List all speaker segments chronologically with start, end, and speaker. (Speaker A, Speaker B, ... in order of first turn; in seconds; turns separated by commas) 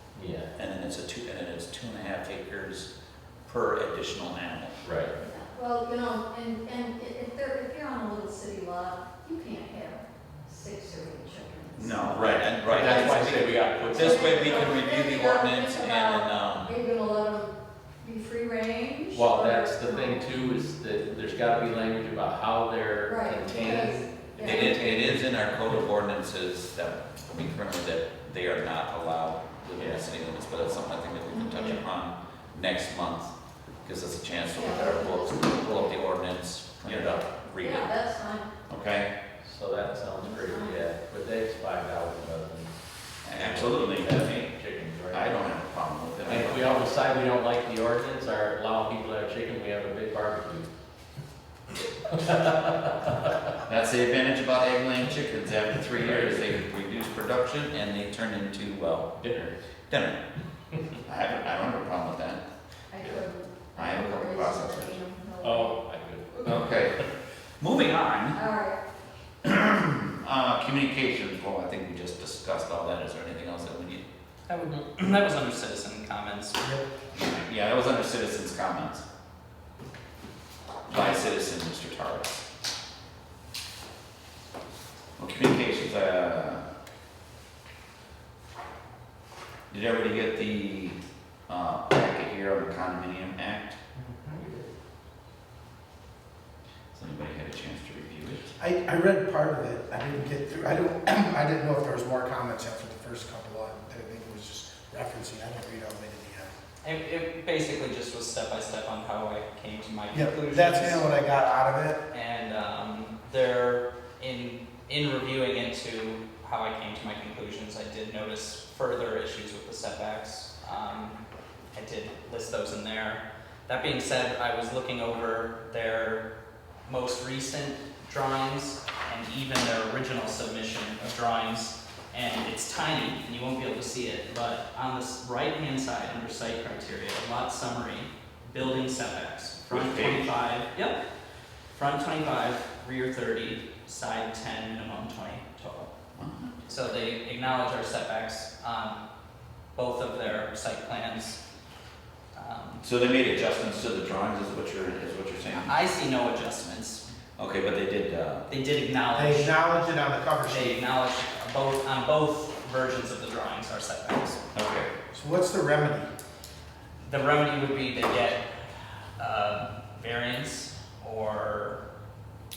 Speaker A: 0.1-0.5, Speaker B: 0.6-2.9, Speaker B: 3.5-4.8, Speaker A: 4.8-5.1, Speaker C: 5.2-11.9, Speaker B: 11.7-16.7, Speaker A: 12.1-14.8, Speaker C: 14.0-20.1, Speaker A: 19.1-25.4, Speaker C: 23.1-24.6, Speaker B: 24.4-37.9, Speaker A: 29.8-30.1, Speaker C: 34.5-35.7, Speaker A: 36.8-37.2, Speaker C: 37.6-38.5, Speaker B: 38.7-39.1, Speaker A: 39.4-45.5, Speaker C: 40.2-40.7, Speaker B: 43.2-44.5, Speaker B: 45.1-46.7, Speaker A: 46.2-50.7, Speaker A: 52.1-53.1, Speaker B: 53.6-60.2, Speaker A: 55.9-56.4, Speaker A: 59.2-59.5, Speaker B: 61.0-62.4, Speaker C: 62.9-65.8, Speaker B: 63.7-65.0, Speaker A: 65.4-67.0, Speaker B: 66.4-67.0, Speaker B: 67.6-68.4, Speaker C: 68.4-68.8, Speaker B: 69.4-74.0, Speaker D: 74.5-76.6, Speaker B: 77.1-79.0, Speaker B: 80.9-82.4, Speaker B: 85.2-86.6, Speaker B: 89.7-91.0, Speaker B: 91.5-93.8, Speaker E: 94.0-94.5, Speaker B: 96.9-98.5, Speaker E: 98.6-106.5, Speaker D: 106.8-111.1, Speaker E: 110.1-112.0, Speaker D: 112.1-121.2, Speaker D: 121.7-126.2, Speaker D: 126.9-141.0, Speaker B: 139.7-140.3, Speaker D: 141.7-145.9, Speaker B: 146.2-146.7, Speaker D: 146.7-149.0, Speaker D: 149.8-151.4, Speaker D: 152.3-152.8, Speaker B: 152.8-155.8, Speaker D: 155.5-157.1, Speaker B: 157.4-158.5, Speaker D: 158.5-159.7, Speaker E: 159.1-160.8, Speaker D: 160.4-164.4, Speaker B: 164.5-164.9, Speaker E: 165.1-166.1, Speaker D: 167.0-168.5, Speaker D: 169.2-171.8